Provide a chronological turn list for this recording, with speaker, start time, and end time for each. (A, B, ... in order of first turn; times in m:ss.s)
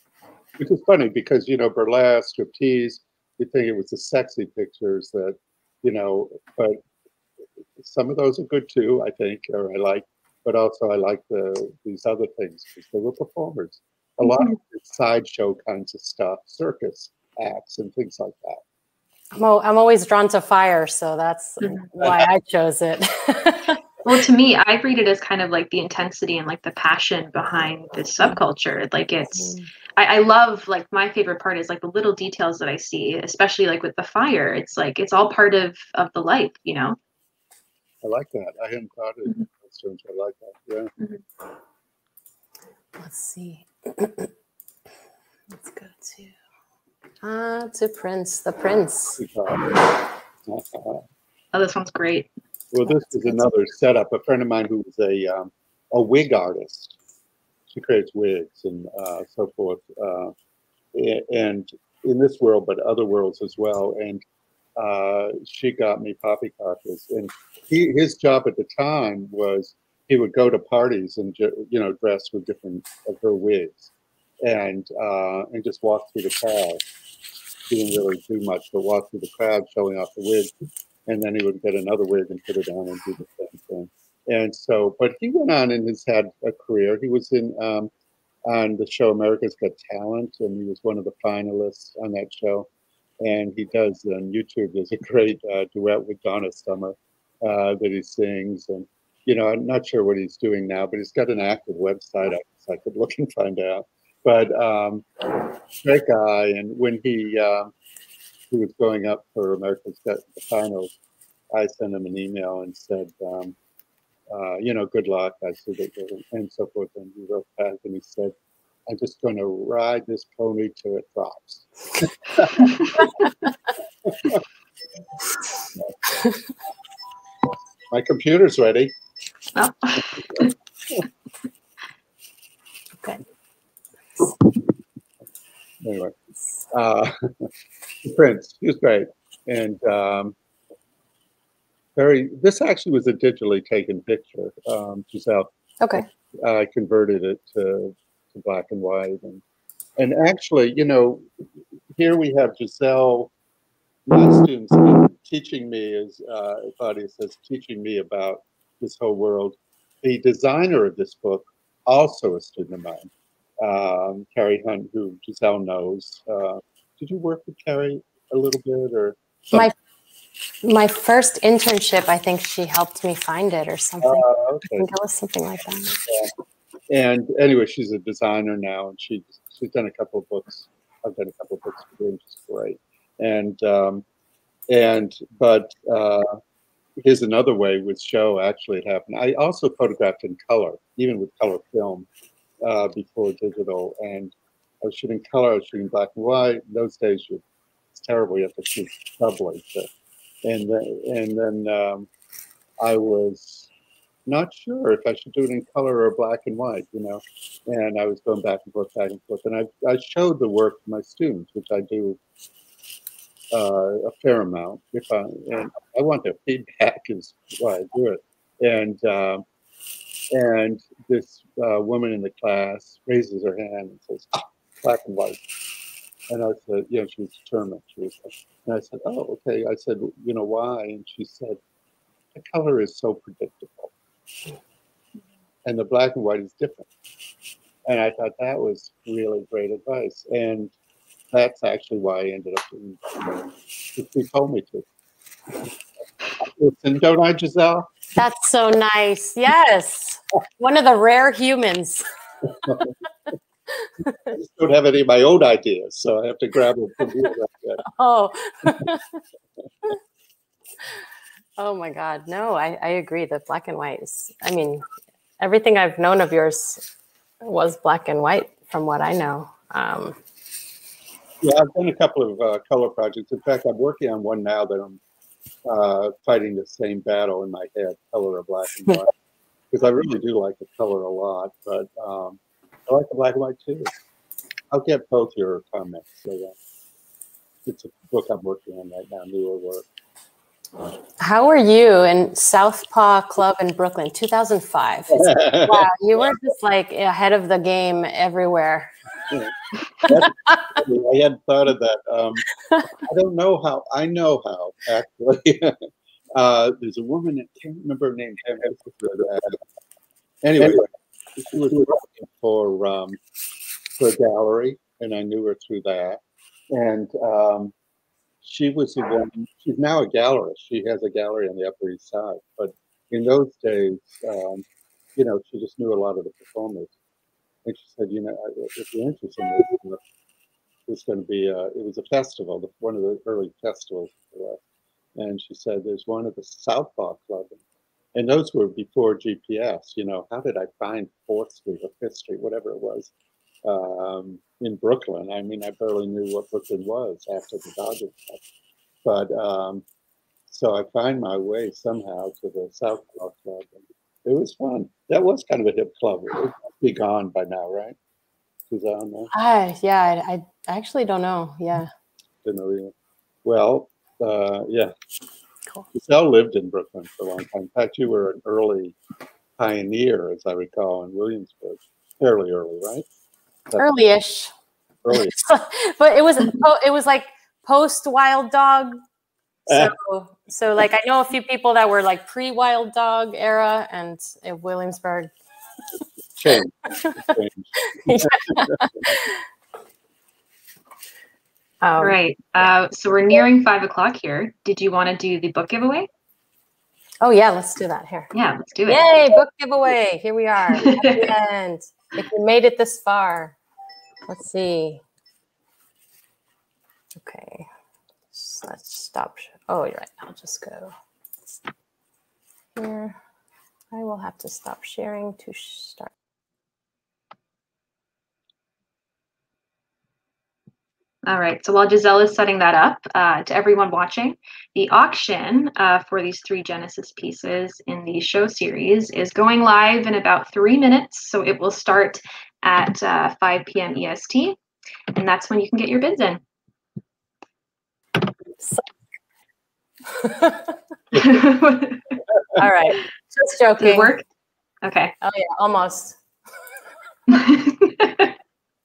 0:00.6-0:06.8 A
0:07.8-0:18.6 A
0:19.3-0:23.8 B
0:21.6-0:21.9 C
0:22.0-0:22.3 A
0:24.0-0:37.0 C
0:38.0-0:40.9 A
0:43.0-0:44.3 B
0:45.5-0:46.3 B
0:47.2-0:49.2 B
0:49.2-0:49.7 A
0:50.5-0:51.0 A
0:51.5-0:52.3 C
0:52.7-0:56.9 A
0:52.9-0:53.5 B
0:57.7-1:00.3 A
1:00.9-1:04.2 A
1:04.8-1:13.9 A
1:14.4-1:16.8 A
1:17.7-1:20.5 A
1:21.1-1:27.9 A
1:28.5-1:32.7 A
1:33.2-1:47.7 A
1:48.5-1:50.9 A
1:51.5-1:53.6 A
1:54.3-1:58.3 A
1:58.9-2:02.7 A
2:02.6-2:03.0 C
2:04.0-2:04.4 A
2:07.9-2:08.9 A
2:09.6-2:10.5 C
2:15.8-2:16.1 A
2:16.7-2:17.5 A
2:18.0-2:20.4 A
2:22.0-2:29.4 A
2:30.0-2:31.2 A
2:31.9-2:33.3 A
2:34.0-2:49.7 A
2:50.6-2:56.0 B
2:54.0-2:54.9 A
2:56.9-3:04.0 A
3:04.7-3:06.3 A
3:07.0-3:12.1 A
3:12.6-3:19.9 A
3:20.4-3:22.1 A
3:22.8-3:23.7 A
3:24.3-3:32.2 A
3:33.5-3:39.4 A
3:40.3-3:45.4 A
3:46.3-3:51.6 A
3:52.3-3:53.9 A
3:55.6-3:56.9 A
3:57.8-4:00.7 A
4:01.3-4:03.4 A
4:03.9-4:04.8 A
4:06.4-4:07.9 A
4:08.2-4:12.0 B
4:12.5-4:12.9 A
4:13.7-4:14.3 B
4:14.3-4:17.8 A
4:17.9-4:19.2 B
4:21.6-4:24.8 B
4:25.4-4:26.8 B
4:27.4-4:30.2 B
4:31.4-4:35.0 A
4:35.6-4:39.1 A
4:39.7-4:43.9 A
4:44.7-4:46.6 A
4:47.6-4:49.9 A
4:51.2-4:58.9 B
4:55.1-4:55.9 A
4:59.3-5:02.5 A
5:00.0-5:00.6 B
5:03.0-5:05.8 A
5:06.3-5:09.6 A
5:10.4-5:13.2 A
5:14.0-5:16.2 A
5:16.7-5:17.7 A
5:18.4-5:24.6 A
5:25.2-5:26.9 A
5:27.6-5:30.0 A
5:30.9-5:34.6 A
5:35.2-5:37.6 A
5:38.1-5:43.1 A
5:43.6-5:48.4 A
5:49.0-5:49.8 A
5:50.5-5:58.0 A
5:58.7-5:59.3 A
5:59.3-6:01.9 B
6:02.4-6:02.9 A
6:03.4-6:04.9 A
6:05.9-6:09.0 A
6:09.6-6:13.0 A
6:13.8-6:14.5 B
6:15.0-6:15.3 A
6:15.1-6:19.0 B
6:19.7-6:25.3 B
6:19.7-6:19.9 A
6:26.4-6:29.0 A
6:27.0-6:27.3 B
6:27.9-6:29.4 B
6:31.8-6:32.2 B
6:32.0-6:36.1 C
6:37.2-6:38.3 B
6:38.3-6:39.0 C
6:38.9-6:43.6 B
6:40.8-6:41.3 C
6:44.3-6:45.0 B
6:47.1-6:47.7 B
6:48.3-6:50.9 B
6:52.8-6:53.2 B
6:53.9-6:56.1 B
7:01.2-7:14.6 C
7:15.1-7:16.4 C
7:20.1-7:20.8 B
7:21.1-7:22.2 C
7:22.6-7:24.1 B
7:23.8-7:24.2 C
7:24.8-7:25.1 C
7:25.2-7:26.2 B
7:27.3-7:28.3 C